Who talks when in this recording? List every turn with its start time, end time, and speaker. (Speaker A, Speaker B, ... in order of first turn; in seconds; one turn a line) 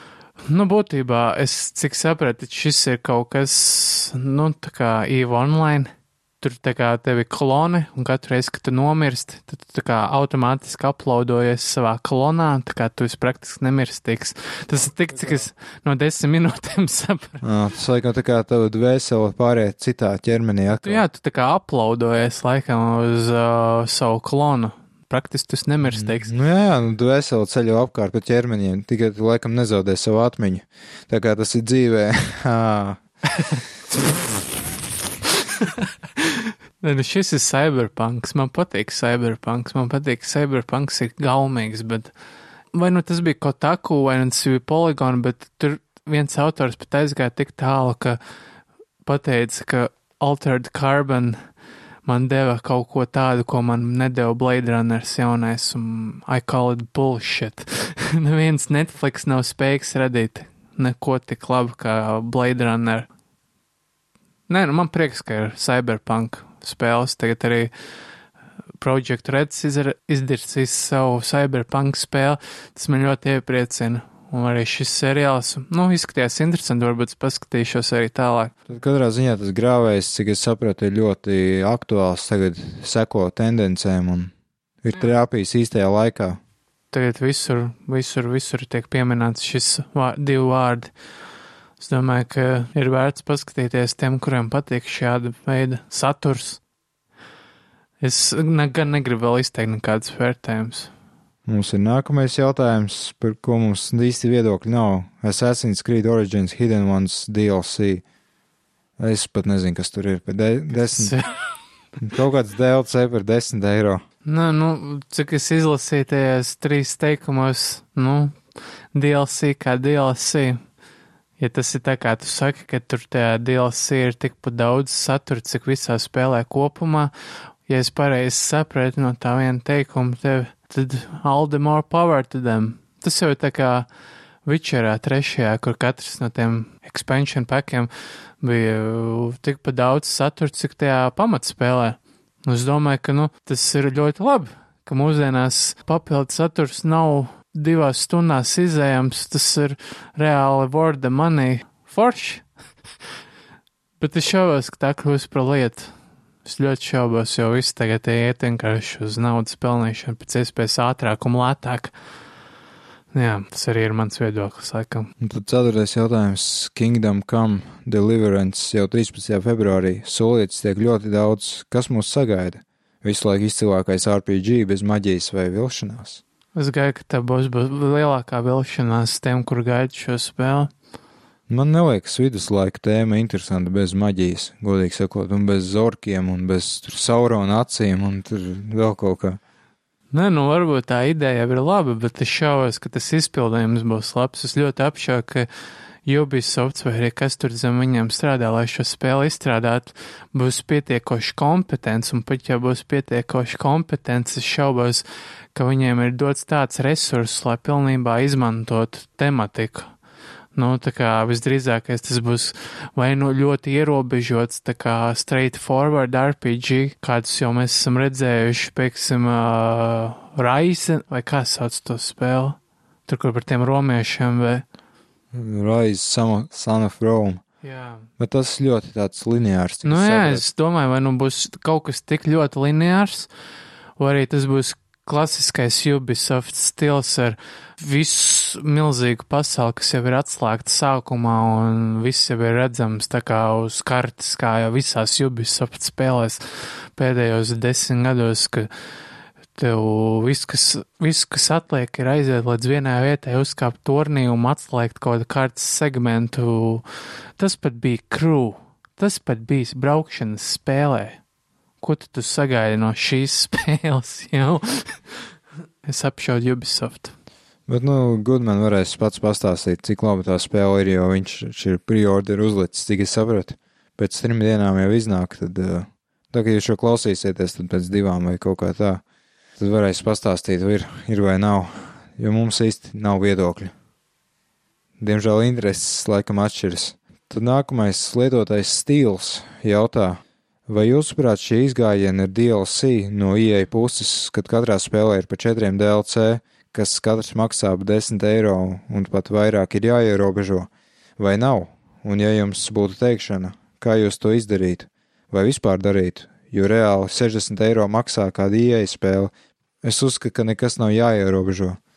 Speaker A: 0.5-17.4
Speaker B: 17.4-21.0
Speaker A: 20.8-26.3
Speaker B: 25.9-33.0
Speaker A: 35.6-42.1
Speaker A: 42.7-48.2
Speaker A: 49.0-51.4
Speaker A: 52.1-63.1
Speaker A: 64.5-67.7
Speaker A: 68.8-78.5
Speaker B: 78.7-86.4
Speaker A: 86.9-90.9
Speaker A: 91.8-96.6
Speaker A: 98.0-100.9
Speaker B: 101.5-108.0
Speaker B: 109.0-111.2
Speaker A: 110.7-111.4
Speaker B: 112.0-114.0
Speaker A: 114.2-118.4
Speaker A: 118.9-120.6
Speaker A: 121.4-127.1
Speaker A: 127.7-133.9
Speaker A: 134.4-152.5
Speaker A: 154.0-155.9
Speaker A: 156.4-161.9
Speaker A: 163.1-165.1
Speaker B: 165.2-176.2
Speaker A: 176.6-180.7
Speaker B: 181.5-189.4
Speaker A: 190.1-195.5
Speaker A: 196.1-209.9
Speaker A: 210.6-224.6
Speaker B: 225.3-227.4
Speaker A: 227.6-228.1
Speaker B: 228.2-230.4
Speaker A: 229.8-233.3
Speaker A: 234.0-248.7
Speaker A: 249.6-256.8
Speaker A: 257.4-261.2
Speaker A: 261.8-265.3
Speaker A: 265.8-267.1
Speaker B: 267.7-279.0
Speaker B: 279.6-283.7
Speaker B: 285.0-309.3
Speaker B: 309.8-311.8